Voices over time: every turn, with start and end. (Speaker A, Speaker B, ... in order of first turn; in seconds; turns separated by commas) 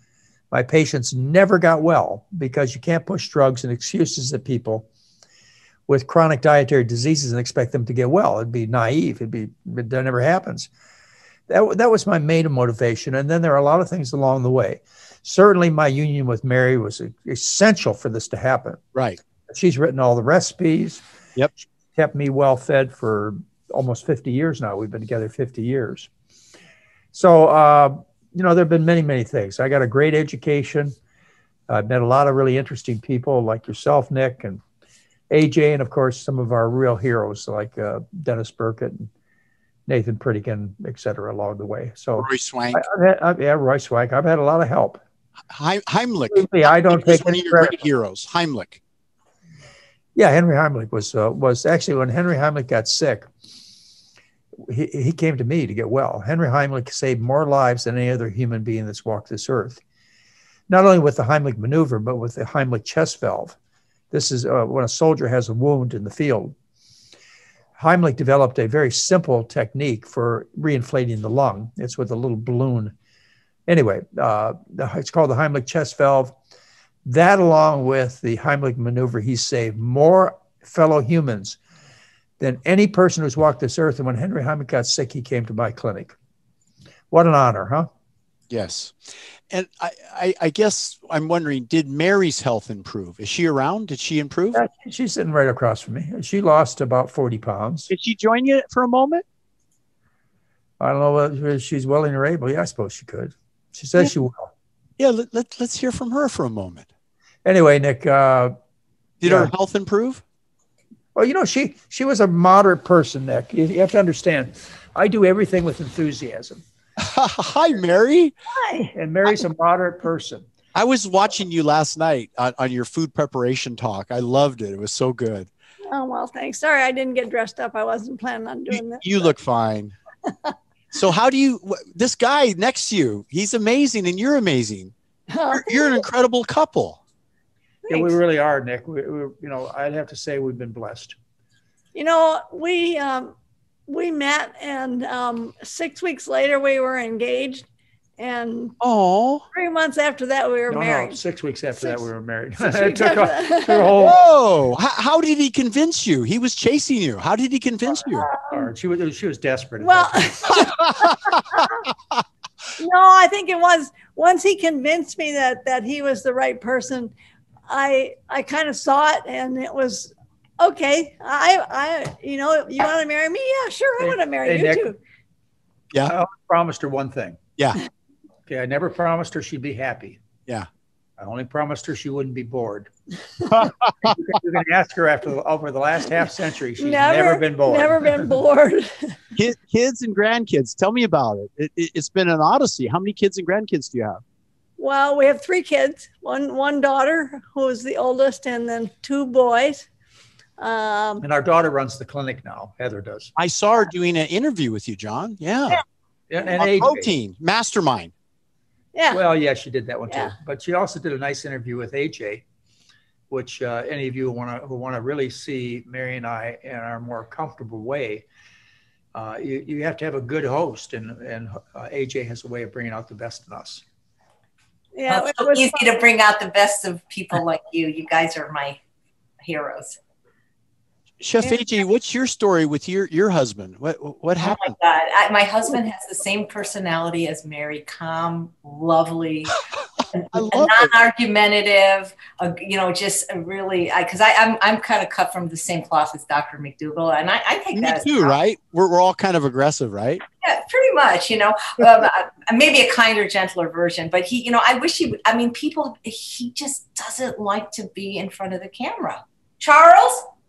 Speaker A: 0.5-4.8, Speaker A: 5.9-10.7, Speaker A: 11.5-18.8, Speaker A: 19.5-21.0, Speaker A: 21.9-26.1, Speaker A: 27.1-30.9, Speaker A: 31.7-34.6, Speaker A: 35.3-39.1, Speaker A: 39.9-45.0, Speaker B: 42.2-42.8, Speaker B: 45.5-48.8, Speaker A: 46.3-47.8, Speaker A: 50.1-53.3, Speaker A: 54.7-59.8, Speaker A: 60.7-63.5, Speaker A: 64.1-66.5, Speaker A: 67.8-72.9, Speaker A: 73.7-76.4, Speaker A: 77.0-81.6, Speaker A: 82.4-86.1, Speaker A: 87.1-87.9, Speaker B: 88.5-89.0, Speaker B: 89.5-94.6, Speaker A: 94.5-97.9, Speaker B: 97.9-99.2, Speaker A: 100.8-104.5, Speaker B: 105.0-106.8, Speaker A: 107.4-108.5, Speaker B: 109.2-110.2, Speaker A: 109.2-109.5, Speaker A: 111.1-116.6, Speaker B: 117.0-118.3, Speaker C: 118.5-118.9, Speaker A: 118.9-120.5, Speaker B: 120.7-125.5, Speaker C: 125.9-129.3, Speaker B: 128.7-129.9, Speaker B: 130.9-134.9, Speaker C: 135.3-136.0, Speaker B: 135.5-137.0, Speaker C: 137.8-138.2, Speaker A: 137.9-141.2, Speaker C: 141.9-143.3, Speaker C: 143.9-147.7, Speaker C: 148.2-148.7, Speaker B: 148.8-149.4, Speaker C: 149.5-151.2, Speaker A: 150.7-154.2, Speaker C: 152.6-154.1, Speaker B: 154.0-158.3, Speaker C: 158.2-158.7, Speaker A: 158.5-160.3, Speaker C: 159.8-160.7, Speaker B: 160.5-162.2, Speaker C: 162.8-167.1, Speaker C: 167.7-175.0, Speaker A: 174.0-174.9, Speaker A: 176.1-177.4, Speaker A: 178.5-180.2, Speaker A: 181.2-182.9, Speaker B: 183.5-184.3, Speaker A: 184.0-188.3, Speaker C: 186.8-189.2, Speaker B: 189.3-194.2, Speaker C: 194.8-199.9, Speaker C: 200.6-201.2, Speaker A: 201.2-203.3, Speaker B: 203.4-205.8, Speaker A: 206.3-207.1, Speaker B: 206.6-208.1, Speaker C: 208.9-209.2, Speaker A: 209.1-212.4, Speaker C: 210.1-210.3, Speaker A: 213.3-218.2, Speaker A: 219.1-223.8, Speaker C: 224.9-225.8, Speaker D: 225.1-228.8, Speaker D: 229.4-230.0, Speaker B: 231.2-234.7, Speaker D: 234.4-239.6, Speaker D: 240.1-248.3, Speaker B: 240.3-240.9, Speaker B: 247.7-250.2, Speaker D: 250.4-260.2